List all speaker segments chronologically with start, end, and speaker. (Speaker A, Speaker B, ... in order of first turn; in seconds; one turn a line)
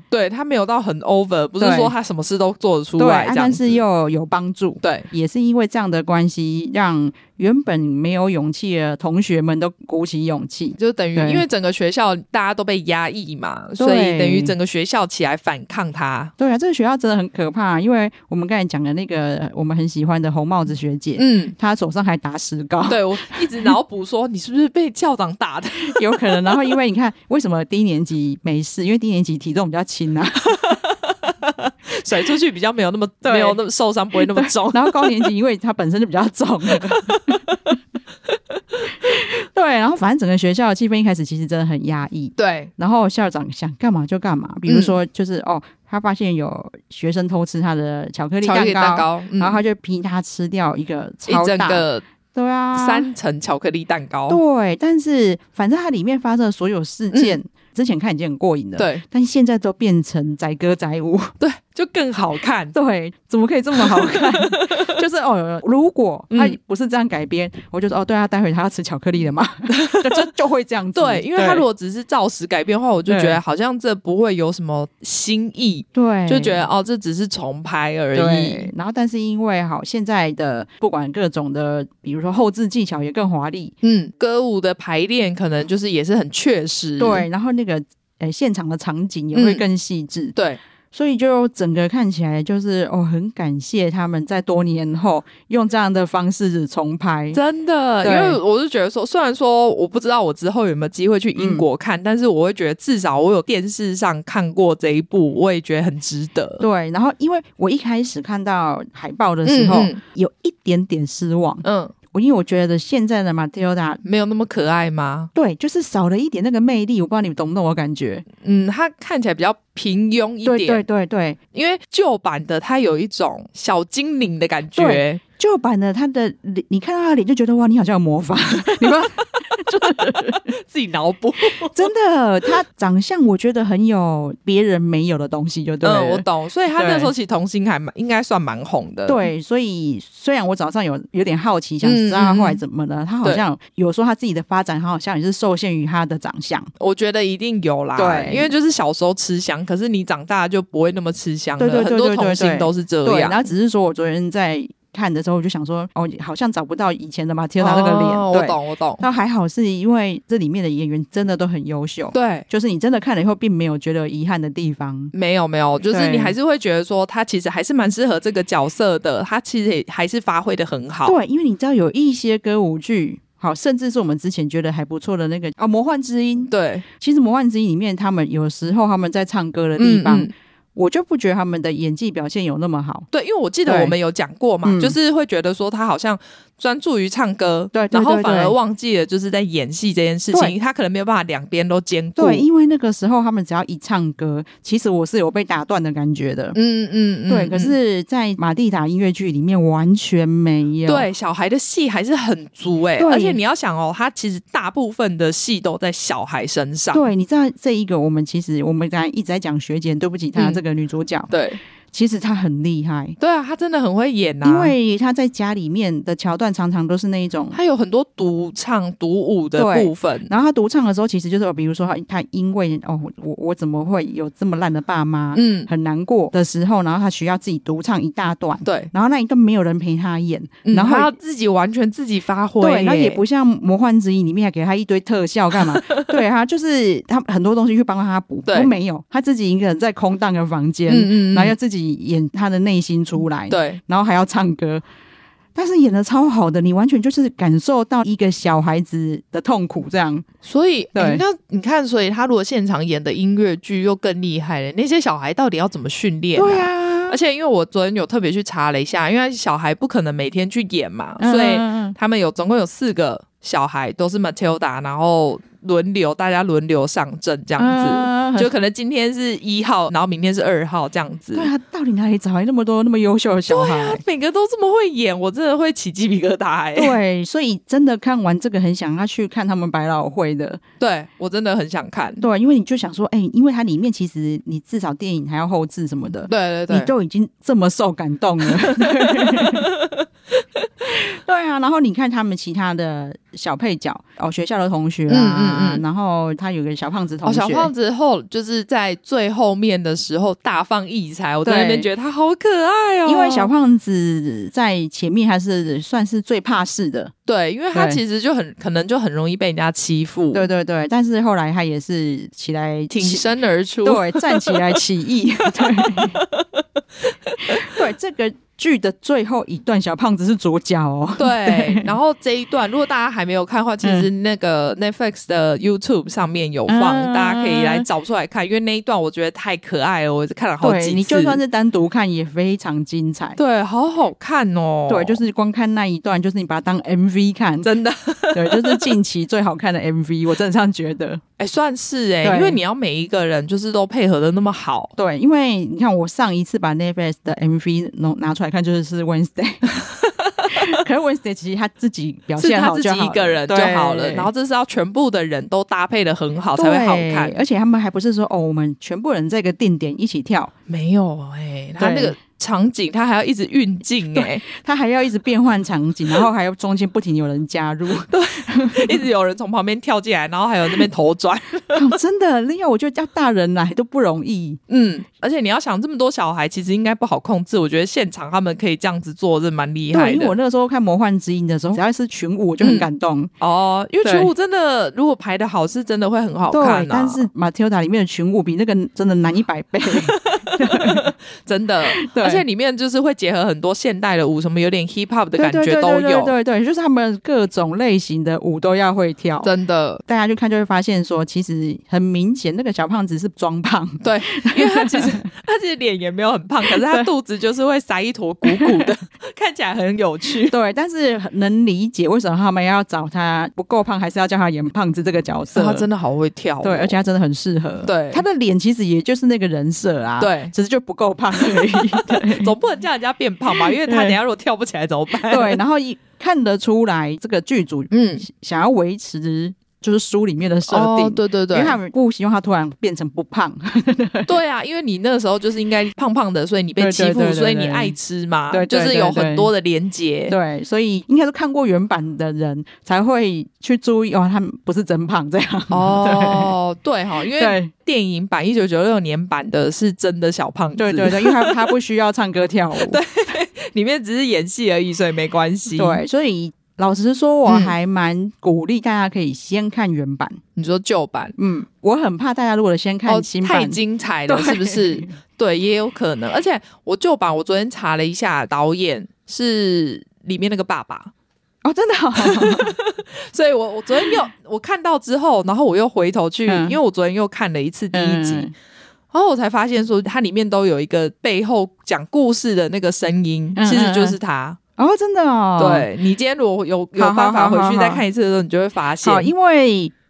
Speaker A: 0.1-3.8
Speaker B: 1.6-1.9
Speaker B: 3.0-11.4
Speaker A: 4.8-5.1
Speaker A: 10.8-16.3
Speaker B: 13.8-14.5
Speaker B: 16.4-23.7
Speaker A: 21.2-21.6
Speaker A: 22.9-26.6
Speaker B: 25.8-30.7
Speaker A: 30.5-35.3
Speaker B: 33.2-33.6
Speaker B: 34.1-37.7
Speaker A: 36.9-37.6
Speaker B: 39.0-53.1
Speaker A: 42.4-42.7
Speaker A: 44.7-45.0
Speaker A: 48.4-49.6
Speaker A: 51.3-52.0
Speaker A: 52.7-54.4
Speaker B: 54.3-61.3
Speaker A: 57.1-57.4
Speaker A: 58.8-59.0
Speaker A: 61.4-62.8
Speaker B: 62.7-71.7
Speaker A: 63.8-65.0
Speaker A: 66.3-66.6
Speaker A: 69.7-70.3
Speaker A: 71.0-78.7
Speaker B: 73.1-73.4
Speaker B: 76.0-76.7
Speaker B: 78.1-83.8
Speaker A: 83.8-87.3
Speaker B: 87.0-90.4
Speaker A: 89.3-89.6
Speaker B: 90.9-97.4
Speaker A: 97.3-106.6
Speaker B: 98.0-98.4
Speaker B: 101.4-101.7
Speaker B: 106.6-114.0
Speaker A: 109.5-110.0
Speaker A: 111.6-111.9
Speaker A: 114.0-115.3
Speaker B: 115.3-118.2
Speaker A: 118.4-120.8
Speaker B: 120.5-121.4
Speaker A: 121.5-125.2
Speaker B: 124.8-130.5
Speaker A: 129.8-131.8
Speaker B: 131.7-137.1
Speaker A: 135.8-139.3
Speaker B: 139.1-146.7
Speaker A: 141.8-142.6
Speaker A: 146.8-153.4
Speaker B: 148.0-148.5
Speaker B: 151.6-165.1
Speaker A: 157.6-159.0
Speaker A: 162.1-162.5
Speaker A: 165.1-171.2
Speaker B: 165.9-166.3
Speaker B: 171.1-183.1
Speaker A: 176.5-176.8
Speaker A: 179.8-180.3
Speaker A: 183.1-192.5
Speaker B: 183.7-183.9
Speaker B: 184.6-185.0
Speaker B: 187.7-188.6
Speaker B: 192.2-196.6
Speaker A: 196.5-197.8
Speaker B: 197.3-201.1
Speaker A: 200.9-207.1
Speaker B: 203.0-203.4
Speaker B: 206.9-211.3
Speaker A: 210.3-210.6
Speaker A: 211.3-211.6
Speaker B: 211.9-213.2
Speaker A: 213.2-214.8
Speaker B: 214.4-217.6
Speaker A: 217.5-220.3
Speaker B: 219.6-231.1
Speaker A: 225.3-225.7
Speaker A: 228.7-228.9
Speaker A: 230.7-233.2
Speaker B: 232.6-244.8
Speaker A: 235.6-236.1
Speaker A: 238.5-238.7
Speaker A: 240.9-241.6
Speaker A: 243.5-243.8
Speaker B: 245.6-250.2
Speaker A: 250.4-271.5
Speaker B: 250.9-251.2
Speaker B: 256.4-257.2
Speaker B: 261.2-262.0
Speaker B: 267.6-268.5
Speaker B: 271.3-274.0
Speaker A: 273.5-277.0
Speaker B: 276.8-280.6
Speaker A: 280.8-282.2
Speaker B: 282.2-289.7
Speaker A: 286.3-286.9
Speaker A: 288.5-290.1
Speaker B: 290.9-297.7
Speaker A: 295.1-295.8
Speaker A: 297.2-303.5
Speaker B: 301.4-301.9
Speaker B: 303.1-307.1
Speaker A: 307.3-310.5
Speaker B: 307.7-308.0
Speaker B: 310.3-313.3
Speaker A: 312.9-314.8
Speaker B: 313.8-316.2
Speaker A: 315.5-316.6
Speaker A: 317.3-317.7
Speaker B: 317.5-321.9
Speaker A: 321.2-331.4
Speaker B: 323.8-324.1
Speaker B: 326.7-327.9
Speaker B: 330.6-333.4
Speaker A: 333.4-335.2
Speaker B: 334.9-337.7
Speaker A: 337.6-338.9
Speaker B: 338.3-341.2
Speaker A: 341.4-344.9
Speaker B: 342.2-342.6
Speaker B: 345.0-349.7
Speaker A: 349.8-350.8
Speaker B: 350.5-354.3
Speaker A: 352.4-357.4
Speaker B: 356.6-360.5
Speaker A: 360.7-364.4
Speaker B: 361.8-362.1
Speaker B: 364.1-369.1
Speaker A: 368.1-371.9
Speaker B: 371.7-374.6
Speaker A: 374.7-380.4
Speaker B: 379.9-383.3
Speaker A: 382.6-382.9
Speaker A: 383.4-387.3
Speaker B: 384.0-384.3
Speaker B: 386.5-391.1
Speaker A: 389.9-396.3
Speaker B: 392.0-392.4
Speaker B: 395.4-399.5
Speaker A: 399.4-400.0
Speaker B: 400.1-405.2
Speaker A: 404.0-410.6
Speaker B: 406.7-407.1
Speaker B: 408.5-408.9
Speaker B: 410.5-415.9
Speaker A: 415.6-417.0
Speaker B: 416.6-422.6
Speaker A: 417.8-418.2
Speaker A: 420.2-420.5
Speaker A: 421.4-425.6
Speaker B: 423.6-424.2
Speaker B: 425.1-434.3
Speaker A: 427.9-428.2
Speaker A: 430.7-431.8
Speaker A: 434.3-440.4
Speaker B: 436.8-437.9
Speaker B: 438.5-439.5
Speaker B: 440.3-446.5
Speaker A: 445.7-451.7
Speaker B: 447.3-447.7
Speaker B: 450.8-453.0
Speaker A: 452.8-456.0
Speaker B: 455.8-460.4
Speaker A: 457.5-457.7
Speaker A: 460.6-461.4
Speaker B: 461.4-465.1
Speaker A: 463.1-471.1
Speaker B: 471.6-472.8
Speaker A: 472.2-478.5
Speaker B: 476.5-476.8
Speaker B: 477.9-478.5
Speaker A: 479.1-484.6
Speaker B: 483.6-484.2
Speaker B: 484.8-485.9
Speaker A: 485.6-489.3
Speaker B: 487.0-488.0
Speaker B: 489.0-489.9